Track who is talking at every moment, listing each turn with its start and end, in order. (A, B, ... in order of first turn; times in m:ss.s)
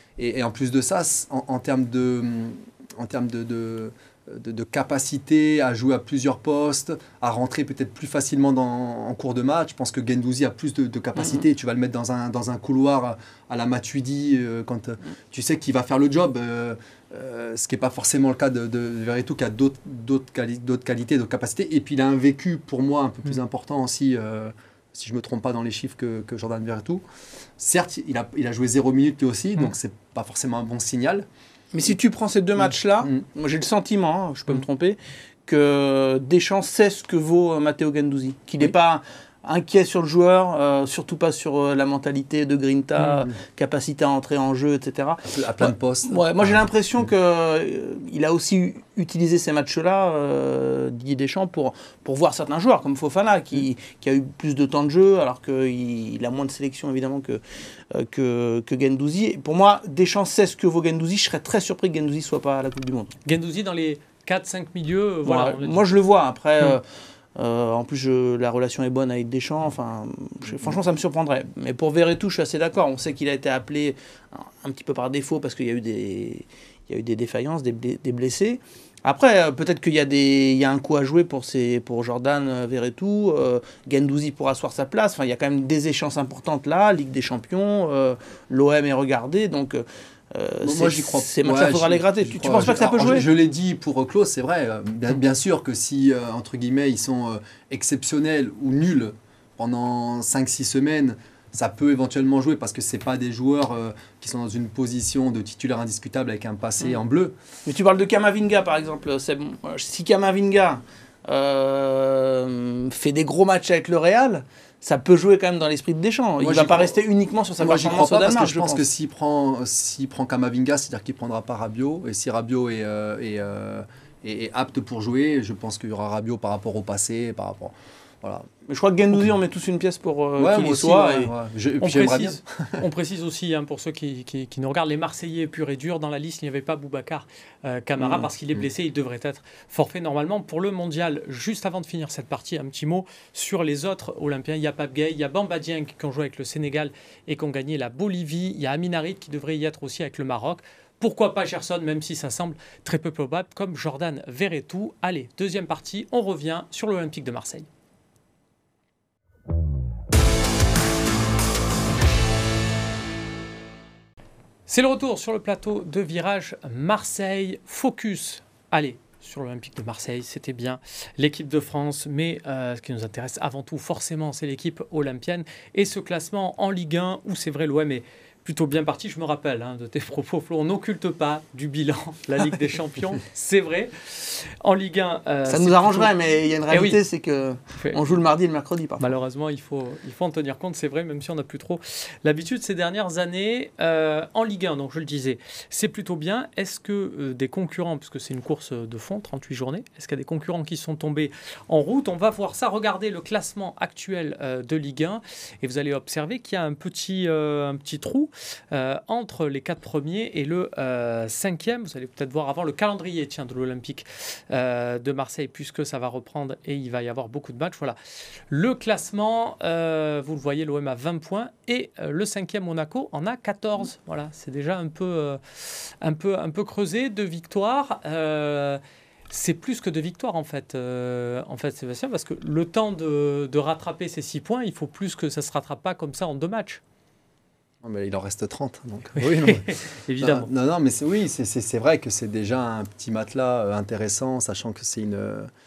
0:00.2-0:27.0 A
0:27.6-0:31.3 A
0:31.7-1:03.2 B
0:45.3-0:46.6 A
1:03.2-1:05.8 C
1:05.2-1:06.8 B
1:07.4-1:33.3 B
1:30.6-1:47.3 A
1:47.6-1:58.8 B
1:56.4-1:57.0 A
1:57.6-2:08.5 A
2:08.7-2:11.3 B
2:10.4-2:12.8 A
2:11.8-2:37.7 C
2:44.7-3:06.1 C
3:05.5-3:09.1 B
3:06.7-3:07.0 C
3:09.0-3:38.0 C
3:38.5-3:48.8 C
3:49.3-3:56.8 C
3:57.8-4:05.5 A
3:59.2-4:00.5 C